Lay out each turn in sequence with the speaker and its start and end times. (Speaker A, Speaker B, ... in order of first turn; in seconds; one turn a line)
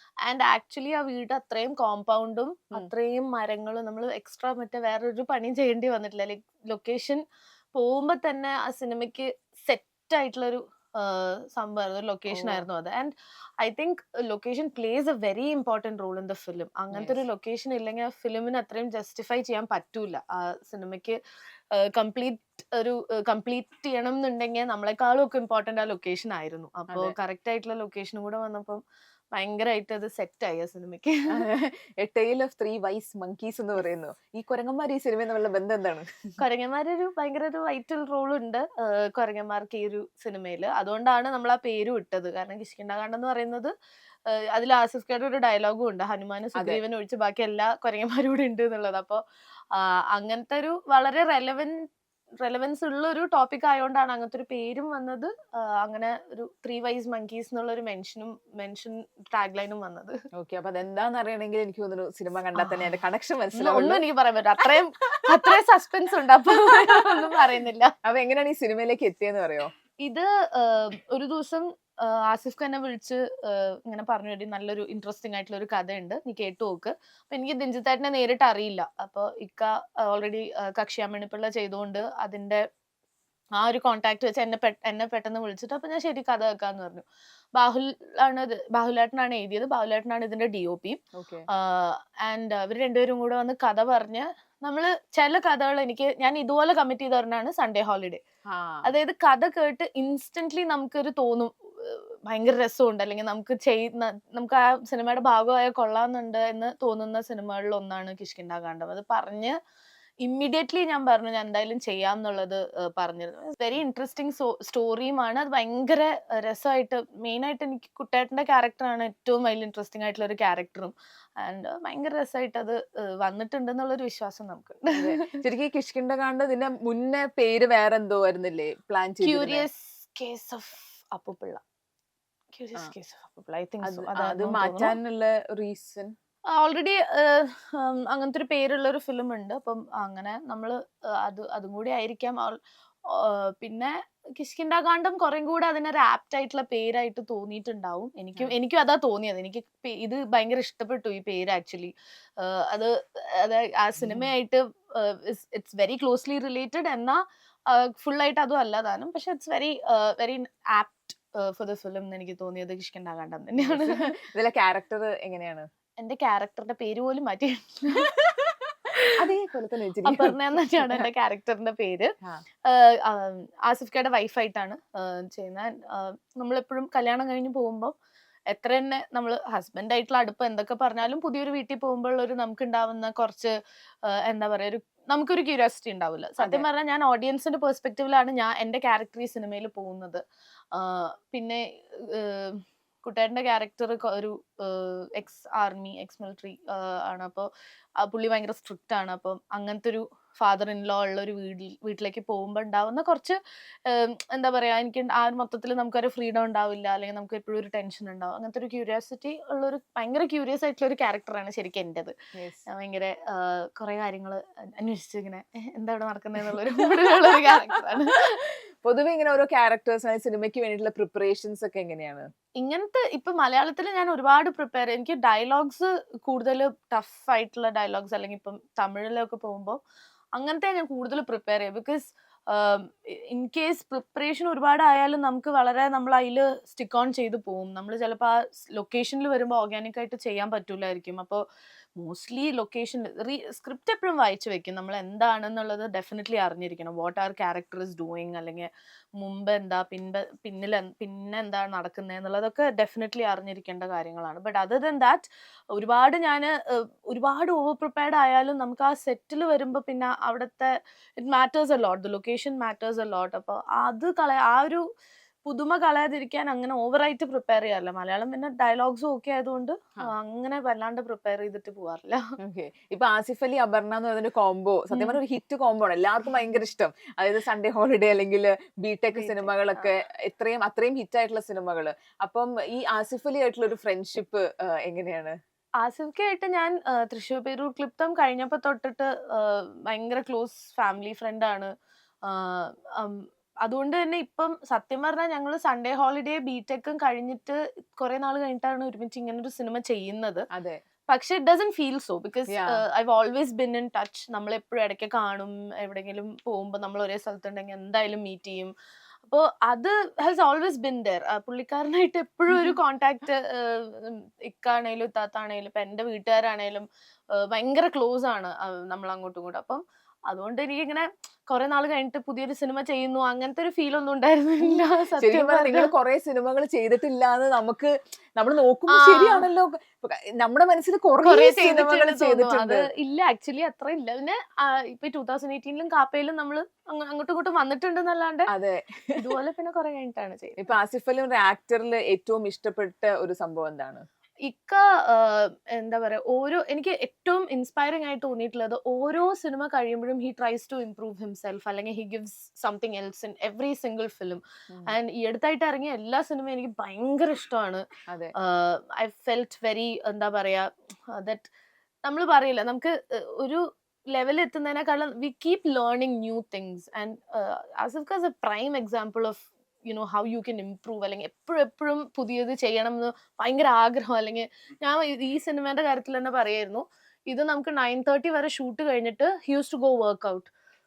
Speaker A: 0.2-7.2
Speaker A: 7.7-21.2
Speaker B: 12.3-12.6
Speaker B: 16.9-17.2
Speaker A: 21.7-31.4
Speaker B: 26.9-27.1
Speaker B: 31.3-36.3
Speaker A: 36.4-43.7
Speaker A: 44.3-51.9
Speaker B: 46.5-46.8
Speaker A: 52.4-60.2
Speaker B: 60.4-64.0
Speaker A: 62.5-62.9
Speaker A: 63.5-67.9
Speaker B: 65.0-65.6
Speaker B: 66.6-67.5
Speaker B: 68.0-69.7
Speaker A: 70.0-82.6
Speaker A: 83.5-98.2
Speaker B: 91.2-91.4
Speaker B: 98.5-98.9
Speaker A: 98.8-109.6
Speaker A: 110.2-125.4
Speaker B: 124.9-129.7
Speaker A: 129.2-131.6
Speaker A: 132.5-134.9
Speaker B: 133.8-136.1
Speaker A: 136.5-164.1
Speaker B: 154.0-154.3
Speaker B: 163.6-165.7
Speaker A: 166.0-169.1
Speaker B: 169.1-171.1
Speaker A: 170.0-177.9
Speaker A: 178.5-197.5
Speaker B: 186.4-186.7
Speaker A: 198.0-212.1
Speaker B: 212.4-212.6
Speaker A: 212.7-218.4
Speaker B: 218.8-222.3
Speaker A: 222.6-229.8
Speaker A: 230.3-241.4
Speaker A: 242.0-264.8
Speaker A: 265.4-272.3
Speaker B: 272.4-285.4
Speaker A: 274.9-275.2
Speaker A: 279.1-279.9
Speaker A: 285.8-291.7
Speaker A: 292.2-300.4
Speaker B: 300.5-300.8
Speaker A: 301.1-308.7
Speaker B: 302.5-302.8
Speaker A: 309.2-325.9
Speaker B: 324.6-332.9
Speaker A: 328.9-329.4
Speaker A: 331.2-338.5
Speaker B: 338.5-339.2
Speaker A: 339.1-340.7
Speaker B: 340.6-344.0
Speaker A: 344.4-357.8
Speaker B: 354.7-354.9
Speaker B: 358.1-358.3
Speaker A: 358.4-361.5
Speaker A: 362.0-380.5